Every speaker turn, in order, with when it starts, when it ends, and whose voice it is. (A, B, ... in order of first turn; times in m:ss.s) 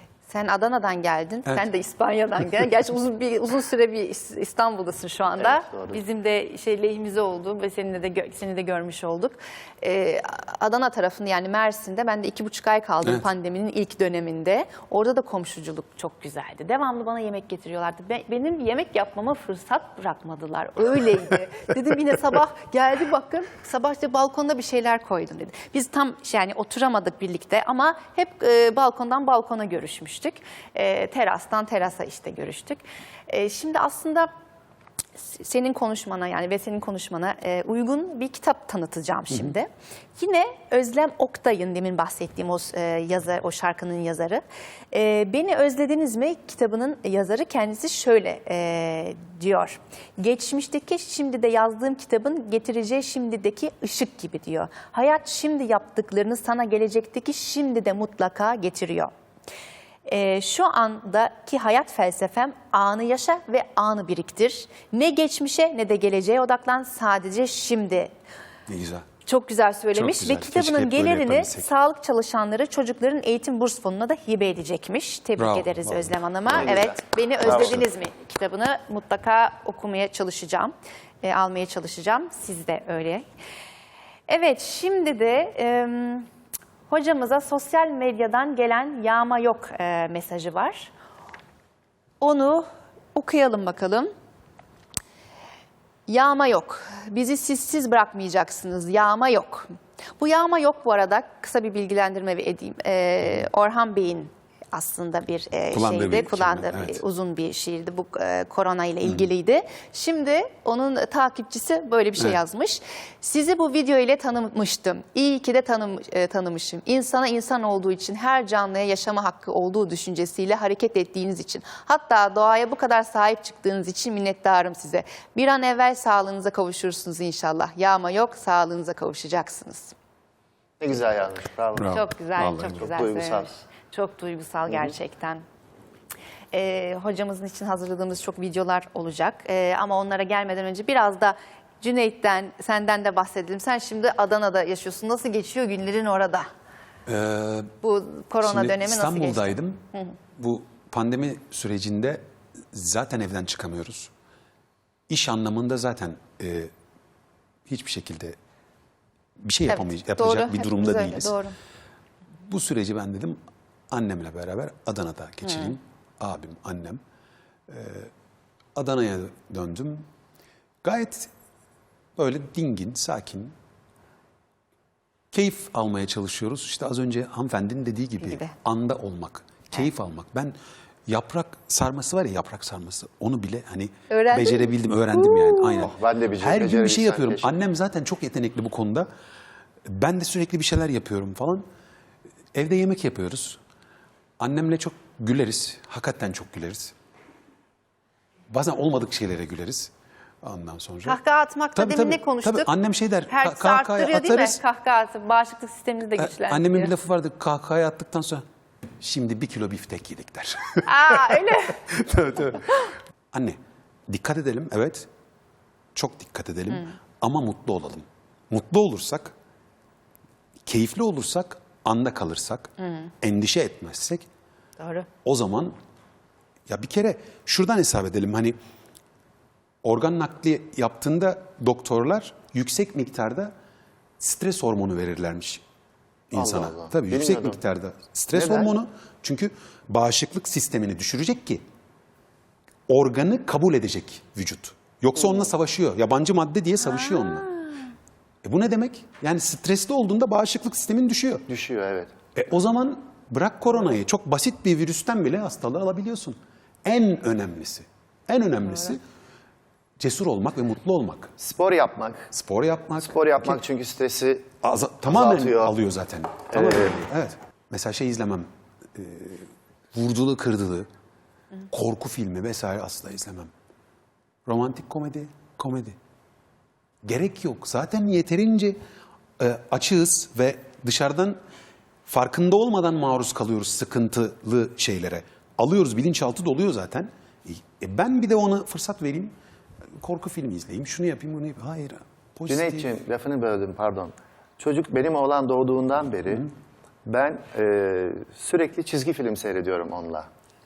0:00.3-0:34.3 A
0:05.4-0:06.0 B
0:35.2-0:59.1 A
1:00.0-1:08.1 A
1:08.7-1:09.1 C
1:09.2-1:23.2 A
1:09.9-1:11.7 C
1:15.4-1:16.2 C
1:16.5-1:17.8 B
1:17.5-1:17.8 C
1:24.3-1:26.3 A
1:26.9-1:30.9 A
1:32.2-1:34.1 A
1:36.1-1:39.7 A
1:40.2-2:09.9 A
1:45.7-1:47.0 C
2:10.8-2:12.0 B
2:11.8-2:12.8 C
2:11.8-2:15.4 A
2:12.7-2:13.5 B
2:16.5-2:26.5 A
2:27.0-2:27.7 C
2:27.8-2:30.2 A
2:28.4-2:29.8 C
2:30.4-2:34.1 C
2:35.1-2:36.7 C
2:37.7-2:38.4 C
2:39.4-2:41.4 C
2:39.7-2:41.6 A
2:42.5-2:43.4 C
2:43.9-2:47.0 C
2:45.5-2:45.7 A
2:47.7-2:48.1 C
2:48.8-2:50.0 C
2:50.8-2:51.3 C
2:52.2-2:53.5 C
2:55.3-3:00.5 C
2:58.2-2:58.5 A
3:01.1-3:09.1 C
3:04.1-3:05.9 A
3:05.8-3:07.6 B
3:09.8-3:11.6 C
3:12.5-3:13.6 C
3:14.4-3:16.9 C
3:18.5-3:19.9 C
3:20.4-3:21.2 C
3:21.0-3:22.7 A
3:21.8-3:24.6 C
3:23.3-3:26.9 A
3:26.2-3:28.4 C
3:29.0-3:35.1 C
3:30.8-3:31.8 A
3:35.9-3:39.3 C
3:40.6-3:44.3 C
3:42.8-3:43.1 A
3:44.8-3:45.1 A
3:45.2-3:45.8 C
3:46.7-3:48.6 C
3:49.8-3:53.5 C
3:54.2-3:55.6 C
3:56.3-4:01.6 C
3:56.4-3:57.6 B
3:58.3-3:58.7 B
4:02.9-4:07.5 C
4:06.9-4:07.8 A
4:08.4-4:11.4 C
4:11.5-4:12.1 B
4:12.4-4:19.0 C
4:20.0-4:21.3 C
4:21.4-4:22.3 B
4:22.3-4:23.6 C
4:23.0-4:24.5 B
4:24.6-4:30.9 C
4:25.1-4:25.7 B
4:26.5-4:27.0 B
4:31.7-4:33.5 C
4:34.4-4:36.0 C
4:37.0-4:38.8 C
4:39.4-4:41.4 C
4:42.1-4:49.4 C
4:50.0-4:52.9 C
4:52.5-4:56.5 B
4:57.0-5:00.3 B